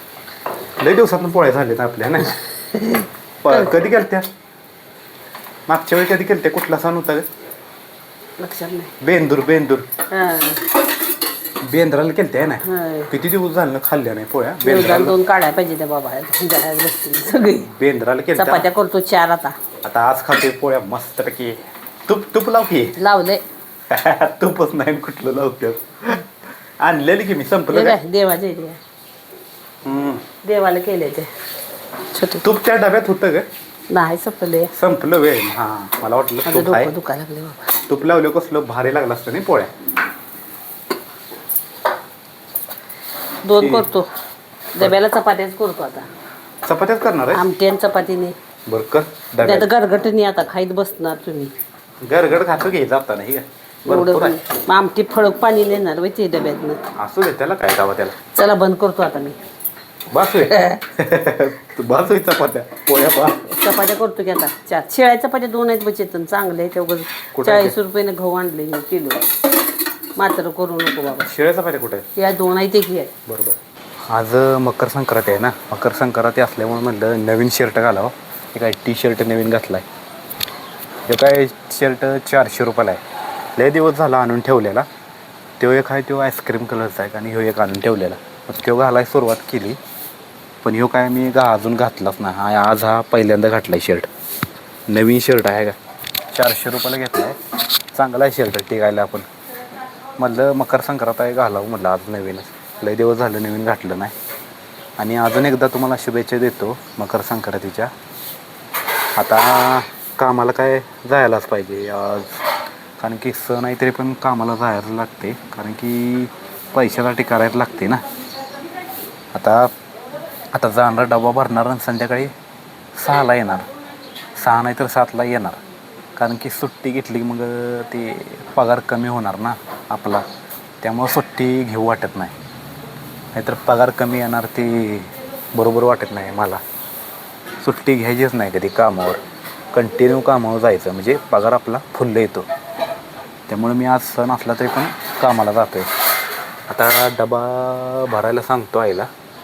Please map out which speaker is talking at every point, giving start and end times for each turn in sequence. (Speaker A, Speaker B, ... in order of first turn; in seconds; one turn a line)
Speaker A: 0.8-2.4
Speaker B: 2.7-3.6
Speaker A: 3.4-4.3
Speaker A: 5.7-7.2
Speaker B: 8.4-8.9
Speaker A: 9.0-9.9
Speaker B: 10.1-10.6
Speaker A: 11.6-15.1
Speaker B: 12.6-13.1
Speaker B: 14.6-17.7
Speaker A: 17.6-18.6
Speaker B: 18.4-19.6
Speaker A: 19.8-23.0
Speaker B: 23.0-23.4
Speaker A: 23.9-26.3
Speaker A: 26.8-28.0
Speaker B: 27.7-28.8
Speaker A: 29.8-30.2
Speaker B: 30.4-31.3
Speaker B: 32.1-32.4
Speaker A: 32.4-33.5
Speaker B: 33.9-34.7
Speaker A: 34.7-36.9
Speaker B: 36.4-37.6
Speaker A: 37.9-39.7
Speaker B: 43.4-44.1
Speaker A: 43.6-43.9
Speaker B: 44.7-46.1
Speaker A: 46.6-47.4
Speaker B: 47.3-48.4
Speaker A: 48.7-49.7
Speaker B: 49.4-51.5
Speaker A: 52.0-54.4
Speaker B: 53.9-56.8
Speaker A: 57.0-58.2
Speaker B: 58.3-59.4
Speaker A: 60.1-63.5
Speaker B: 60.4-60.8
Speaker B: 63.5-69.3
Speaker A: 67.3-67.7
Speaker B: 70.2-71.3
Speaker A: 71.2-72.1
Speaker B: 72.2-73.1
Speaker A: 73.2-73.6
Speaker A: 74.1-79.9
Speaker A: 81.1-83.0
Speaker A: 83.5-84.9
Speaker A: 85.6-89.8
Speaker A: 90.6-94.1
Speaker A: 94.9-95.7
Speaker A: 96.3-97.3
Speaker A: 97.9-99.3
Speaker A: 100.2-104.1
Speaker A: 105.0-107.9
Speaker A: 109.2-112.4
Speaker A: 113.0-118.0
Speaker A: 119.3-119.7
Speaker A: 120.5-122.3
Speaker A: 123.0-123.7
Speaker A: 124.4-125.6
Speaker A: 126.2-130.2
Speaker A: 130.8-132.3
Speaker A: 133.3-136.6
Speaker A: 137.6-139.2
Speaker A: 139.7-142.5
Speaker A: 143.5-145.9
Speaker A: 146.7-149.1